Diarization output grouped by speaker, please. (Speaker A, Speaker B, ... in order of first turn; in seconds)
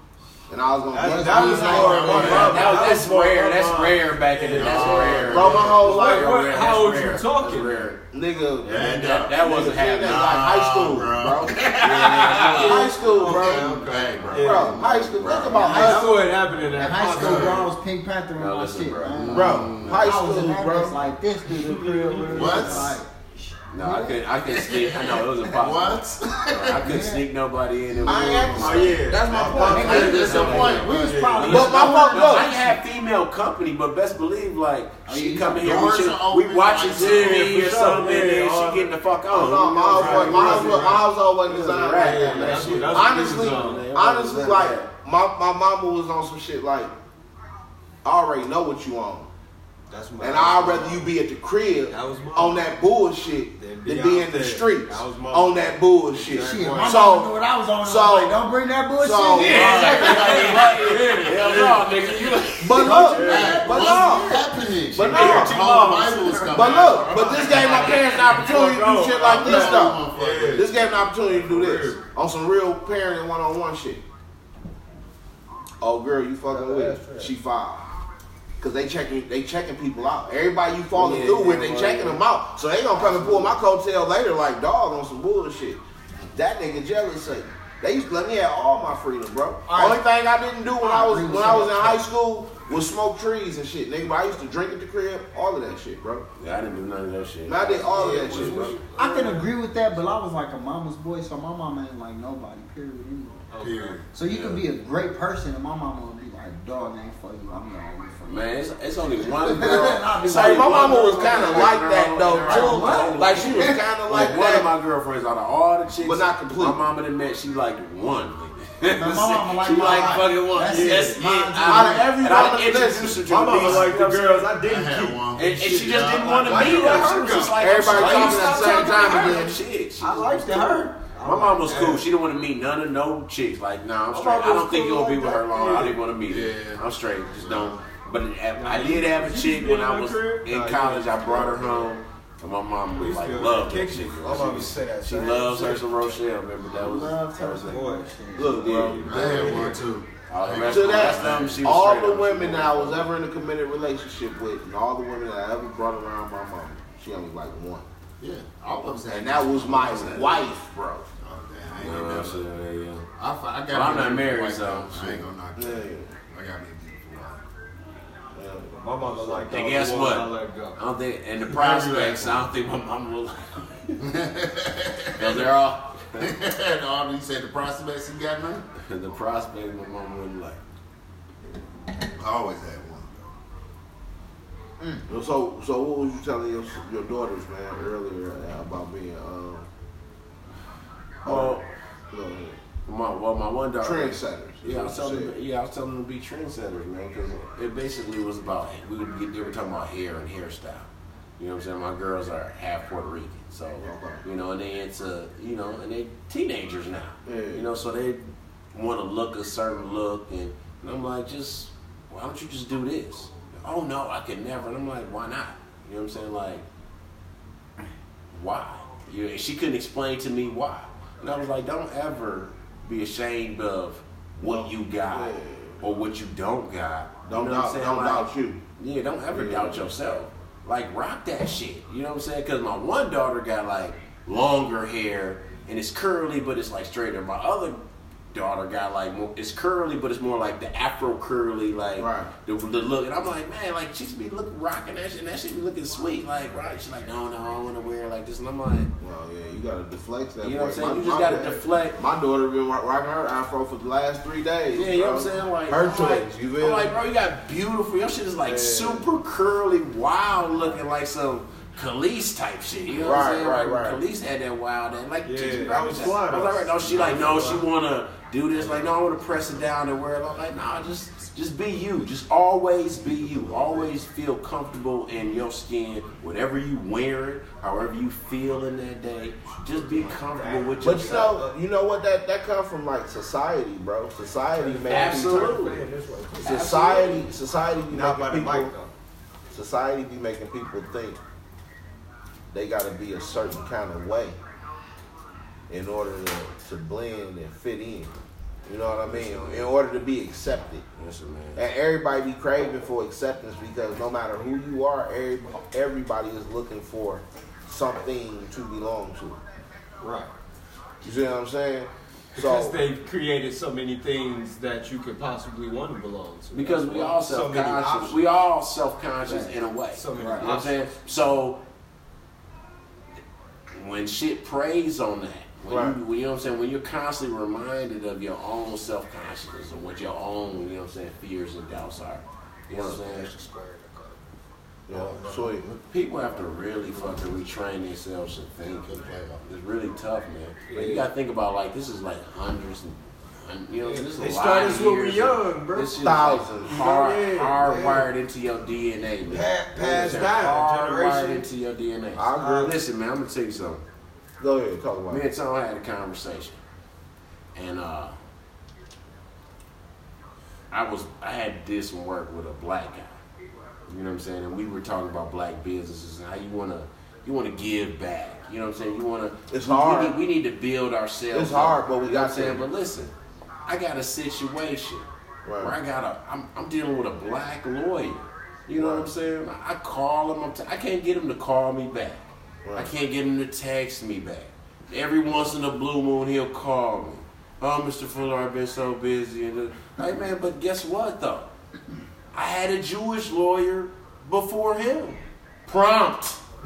Speaker A: 0.5-2.8, 5.3-6.3, 8.1-11.6, 12.4-16.3, 19.3-21.0, 28.1-30.8, 31.4-32.5, 39.3-46.9, 48.0-49.3, 50.2-58.4, 59.0-60.4, 62.6-65.8, 66.5-74.0, 75.8-77.8, 78.6-85.8, 86.3-96.2, 97.5-98.8, 110.2-114.7, 116.0-116.8, 121.6-123.9, 127.5-129.6, 148.4-149.8, 150.6-157.9, 159.1-161.1, 165.6-166.2, 168.3-169.4, 185.1-189.7, 191.2-191.6, 192.1-192.6, 193.8-195.3, 203.8-204.2, 207.3-207.7, 224.4-225.8, 227.3-228.6, 229.3-229.9, 242.0-242.3, 249.0-256.9, 263.0-264.0, 280.8-285.6, 286.4-288.7, 289.5-291.2, 292.5-294.4, 295.7-298.1, 298.7-300.8, 301.6-309.4, 311.0-312.8, 325.7-326.0, 334.9-335.7, 346.0-346.9, 349.9-350.3, 352.2-352.7, 354.4-355.2, 369.5-370.2, 371.3-372.6, 375.4-375.8, 378.8-379.1, 382.6-382.9
Speaker B: 0.9-7.9, 11.8-14.9, 15.6-17.7, 21.5-22.9, 28.5-31.7, 36.9-39.0, 39.9-41.1, 41.7-43.9, 49.9-51.1, 51.9-52.8, 53.6-57.1, 59.6-64.3, 65.0-72.0, 76.5-77.3, 97.9-99.5, 103.5-104.0, 111.2-111.7, 120.6-121.2, 123.3-132.1, 134.1-136.0, 138.6-141.9, 143.0-146.2, 147.6-149.4, 168.7-170.8, 171.5-172.4, 258.4-259.0, 265.2-267.7, 279.7-281.6, 284.6-286.8, 287.9-288.9, 310.0-310.3, 312.4-318.2, 319.9-320.8, 332.7-334.2, 334.9-335.6, 340.7-341.1, 343.8-346.1, 346.7-348.1, 349.3-351.4, 352.3-352.8
Speaker C: 1.1-2.8, 4.5-5.8, 8.6-15.6, 17.0-17.7, 19.1-20.2, 22.3-23.0, 24.5-26.8, 27.9-31.3, 35.6-37.6, 56.4-57.0, 59.5-61.0, 63.1-68.1, 69.2-70.7, 98.3-98.8, 103.6-104.6, 121.1-122.2, 124.6-127.1, 136.3-137.8, 149.0-151.7, 158.2-160.5, 161.2-162.5, 163.2-167.4, 174.0-175.5, 176.2-178.7, 182.2-183.3, 338.7-339.4
Speaker D: 2.1-8.0, 8.6-10.4, 11.4-12.9, 14.8-16.0, 18.4-19.6, 22.4-23.0, 23.7-29.6, 31.4-44.9, 59.4-63.2, 65.1-65.5, 80.9-82.2, 96.4-98.8, 104.3-104.5, 108.3-124.5, 125.3-147.8, 148.4-153.1, 161.8-163.1, 163.7-165.3, 169.5-174.1, 175.2-176.3, 178.8-180.6, 191.2-191.7, 192.9-216.7, 218.3-237.8, 238.3-248.9, 250.4-252.0, 254.7-281.4, 284.9-285.8, 286.4-287.3, 298.9-299.7, 301.0-301.6, 316.5-321.6, 323.7-333.3, 335.9-353.8, 355.1-356.6, 357.6-358.2, 360.7-363.2, 363.9-373.1, 373.7-375.1, 375.6-391.5, 392.3-396.4
Speaker E: 15.3-24.2, 26.8-27.2, 29.7-32.8, 35.1-36.0, 56.3-60.0, 89.7-90.0, 90.8-92.0, 99.0-103.5, 104.1-108.5, 109.2-111.7, 112.4-113.8, 119.0-121.3, 146.7-148.8, 184.8-185.1, 319.3-319.5, 320.1-320.5